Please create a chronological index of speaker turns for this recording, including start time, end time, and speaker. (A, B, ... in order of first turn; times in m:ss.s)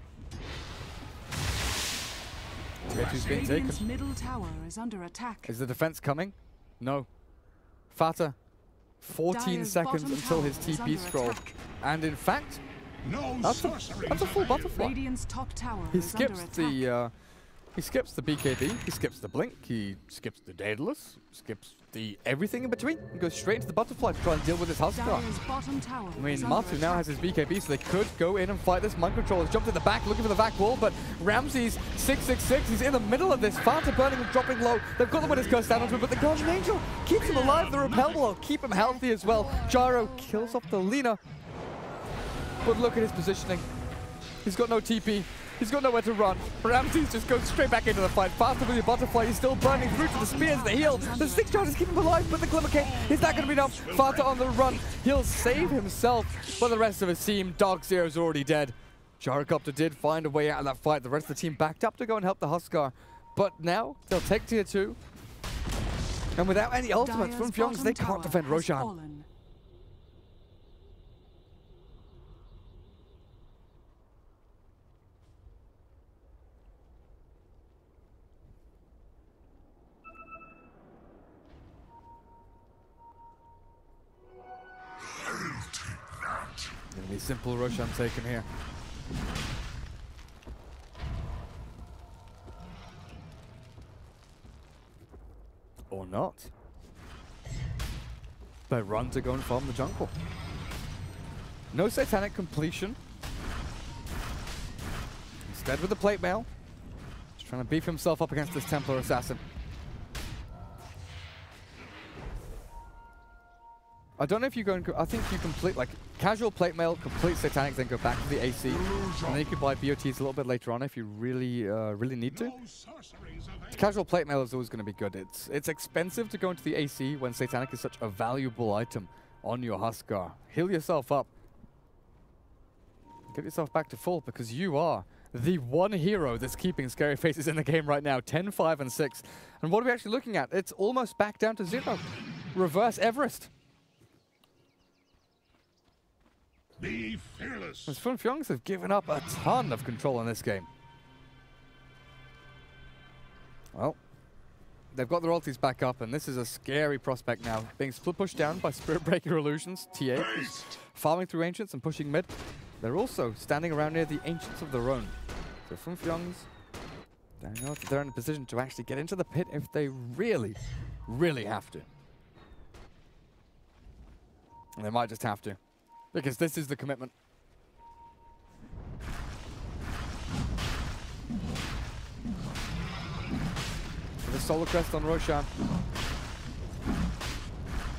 0:02.9-0:03.8 A
0:02.9-0:03.4 B
0:03.0-0:05.5 C
0:05.4-0:07.1 A
0:07.9-0:08.4 A
0:09.0-0:12.6 A
0:09.3-0:11.6 C
0:13.0-0:14.9 B
0:13.4-0:15.0 A
0:14.7-0:16.9 C
0:15.9-0:17.1 A
0:17.8-0:25.2 A
0:24.9-0:27.2 C
0:26.2-0:41.2 A
0:35.2-0:38.3 B
0:42.6-0:43.7 A
0:44.4-1:05.0 A
0:49.6-0:51.8 C
0:52.8-0:54.8 B
1:06.4-1:08.9 A
1:07.0-1:09.3 C
1:26.9-1:28.5 A
1:35.9-1:36.5 A
1:38.7-1:40.1 A
1:41.7-1:43.0 A
1:45.5-1:46.5 A
1:47.4-1:49.4 A
1:54.2-2:02.6 A
1:58.7-1:59.4 B
2:02.3-2:04.0 B
2:03.7-2:11.3 A
2:13.3-2:23.5 A
2:26.8-2:28.0 B
2:27.9-2:30.7 A
2:34.9-2:46.5 A
2:40.3-2:40.6 B
2:47.4-2:51.9 A
2:54.8-2:55.6 A
2:56.1-2:57.1 A
3:04.2-3:05.5 A